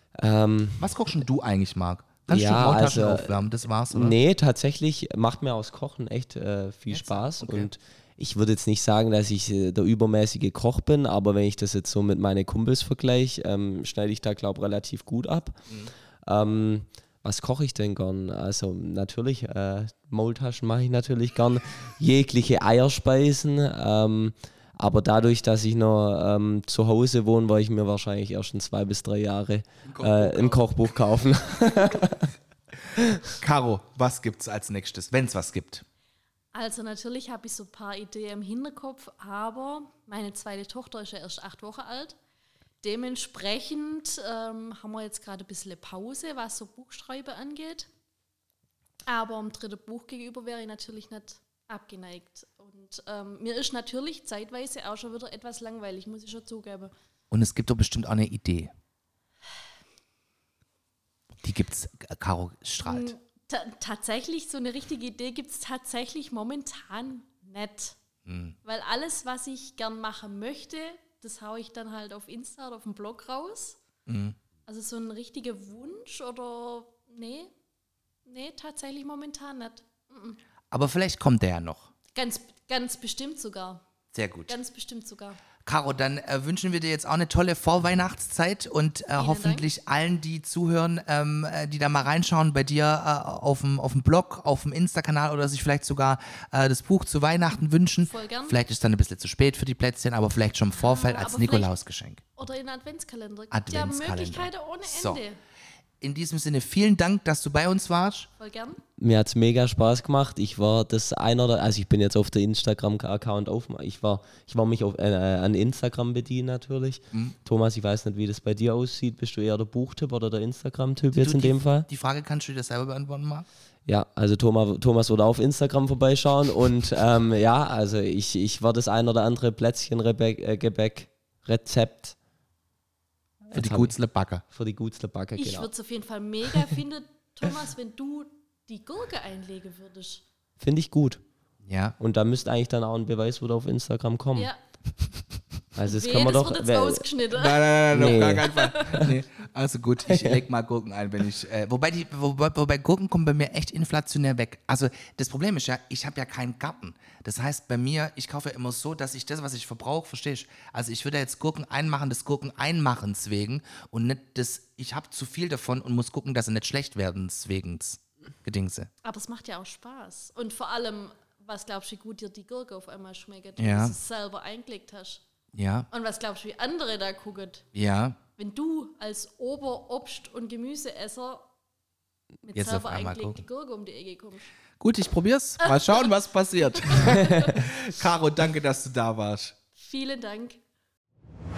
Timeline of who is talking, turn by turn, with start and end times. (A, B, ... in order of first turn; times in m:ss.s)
0:00.2-0:00.9 A
0:00.8-0:04.2 B
0:02.3-0:03.3 A
0:03.9-0:15.6 A
0:06.9-0:07.7 B
0:16.2-0:32.3 A
0:29.9-0:30.6 B
0:33.4-0:35.8 B
0:36.5-0:42.2 C
0:42.8-0:47.9 C
0:49.1-0:56.9 C
0:57.3-0:58.7 B
1:01.4-1:03.1 B
1:02.8-1:08.0 C
1:08.2-1:08.6 B
1:08.6-1:13.8 C
1:14.1-1:14.4 B
1:14.7-1:17.5 C
1:18.3-1:20.4 C
1:20.7-1:21.9 B
1:22.1-1:23.8 C
1:24.1-1:24.6 B
1:24.5-1:25.4 C
1:25.6-1:42.3 B
1:29.2-1:29.7 C
1:38.0-1:38.6 C
1:40.7-1:41.7 C
1:42.4-1:45.4 C
1:43.5-1:45.2 B
1:46.0-1:48.3 B
1:48.4-1:48.8 C
1:49.0-2:01.9 A
2:01.1-2:03.5 B
2:03.9-2:12.2 A
2:13.4-2:14.0 A
2:13.5-2:14.4 B
2:14.5-2:15.7 A
2:15.4-2:20.2 C
2:20.6-2:21.2 A
2:21.6-2:22.0 B
2:22.0-2:24.5 A
2:25.8-2:27.0 A
2:25.9-2:29.1 C
2:27.3-2:48.9 B
2:27.9-2:29.2 A
2:30.1-2:30.4 A
2:49.0-2:55.2 C
2:53.6-2:54.0 B
2:55.5-2:55.9 B
2:55.9-2:57.7 C
2:57.7-2:58.2 B
2:58.4-3:01.5 C
3:02.4-3:04.5 C
3:02.5-3:03.4 B
3:04.8-3:09.6 B
3:05.6-3:06.1 C
3:06.8-3:07.6 C
3:09.8-3:10.6 C